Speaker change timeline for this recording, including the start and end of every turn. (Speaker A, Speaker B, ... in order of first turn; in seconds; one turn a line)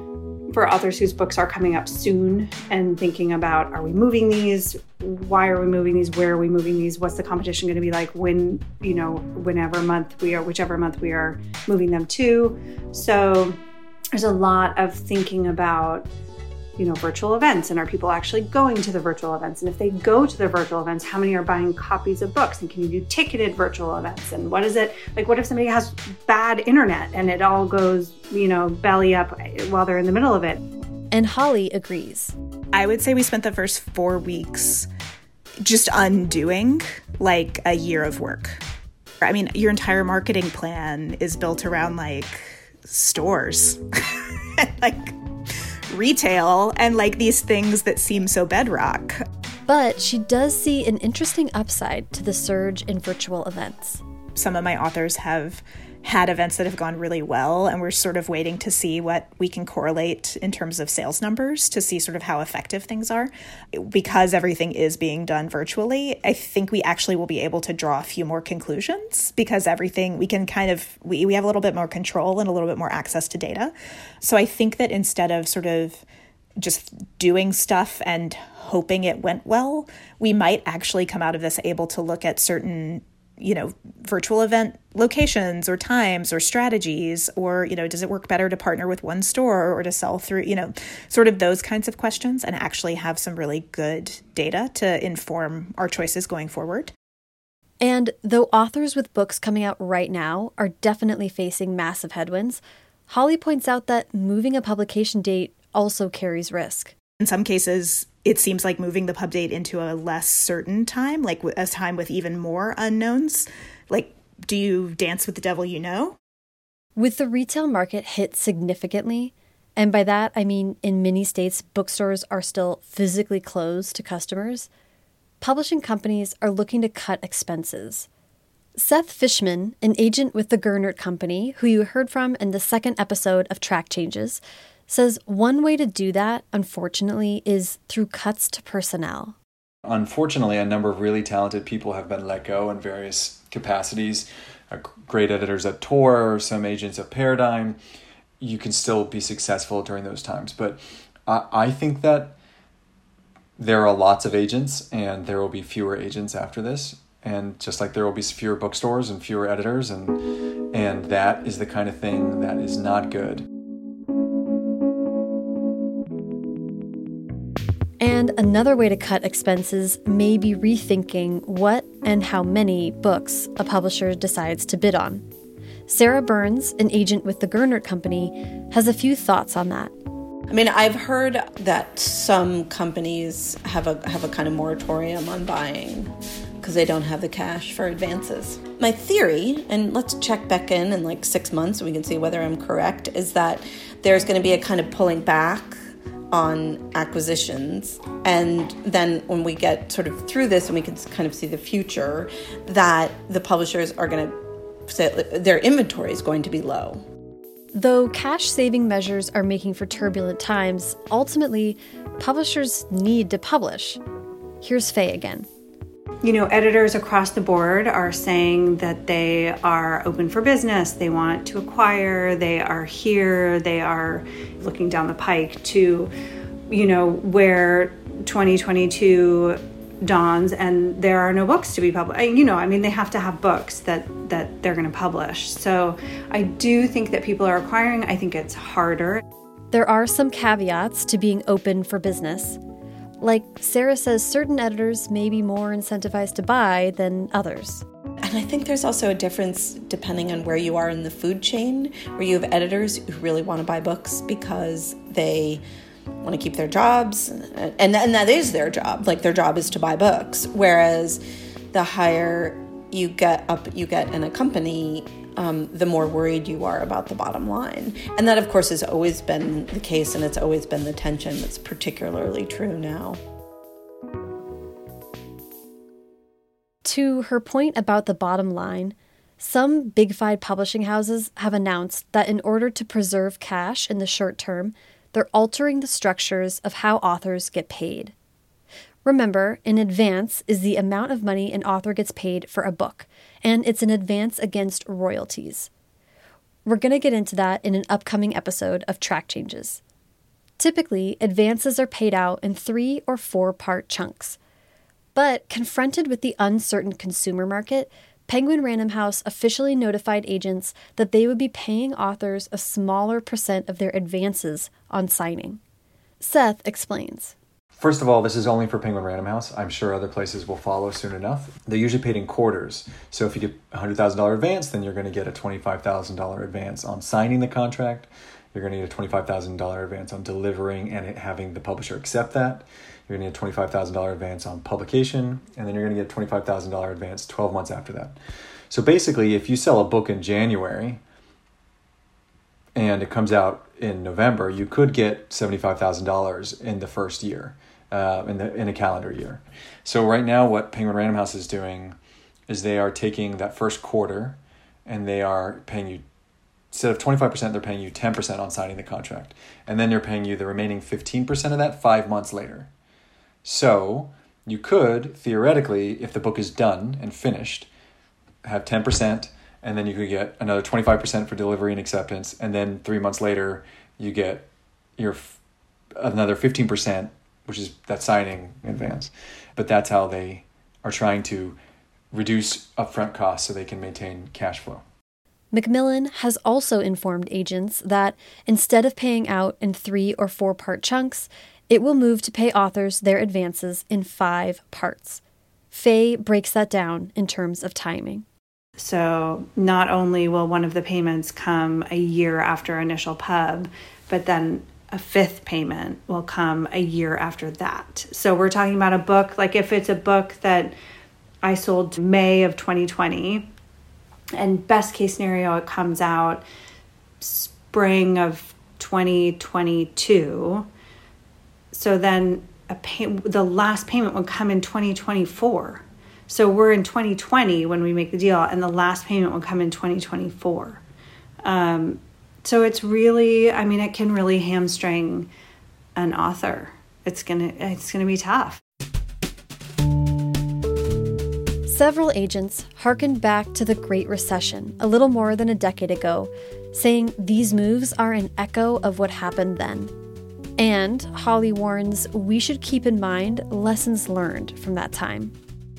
Speaker A: 0.5-13.6
Speaker A: 14.1-16.1
Speaker A: 16.8-30.6
Speaker B: 31.1-32.3
Speaker C: 32.7-34.9
Speaker C: 35.6-38.6
Speaker C: 39.2-45.1
Speaker C: 45.9-49.2
Speaker B: 49.7-54.0
Speaker C: 54.4-76.0
Speaker C: 76.6-96.9
Speaker B: 97.8-106.9
Speaker C: 107.2-116.2
Speaker B: 117.0-124.7
Speaker B: 125.4-128.1
Speaker B: 128.8-139.3
Speaker D: 139.8-147.8
Speaker D: 148.4-152.4
Speaker D: 153.6-160.2
Speaker D: 160.7-163.4
Speaker B: 168.0-175.2
Speaker B: 175.9-179.9
Speaker E: 180.5-195.8
Speaker E: 196.3-204.3
Speaker E: 204.9-207.0
Speaker B: 207.7-214.0
Speaker B: 214.6-215.4
Speaker A: 216.2-226.1
Speaker A: 226.7-239.2
Speaker B: 239.7-242.6
Speaker B: 243.2-247.8
Speaker E: 248.2-255.6
Speaker E: 256.2-261.2
Speaker E: 261.7-273.2
Speaker B: 276.8-288.1
Speaker B: 289.0-295.7
Speaker B: 296.6-299.8
Speaker B: 300.6-304.4
Speaker B: 305.1-315.6
Speaker B: 316.2-317.3
Speaker D: 317.8-338.2
Speaker D: 338.7-341.0
Speaker D: 342.8-352.0
Speaker D: 352.5-356.0
Speaker D: 356.7-362.7
Speaker D: 363.4-367.7
Speaker D: 368.4-375.4
Speaker D: 376.0-381.6
Speaker D: 382.1-384.8
Speaker B: 385.5-398.2
Speaker A: 398.8-410.7
Speaker A: 411.4-413.5
Speaker A: 414.4-416.4
Speaker A: 417.2-420.7
Speaker A: 421.7-430.8
Speaker A: 431.4-435.3
Speaker A: 435.9-438.6
Speaker B: 441.7-449.9
Speaker B: 450.6-455.3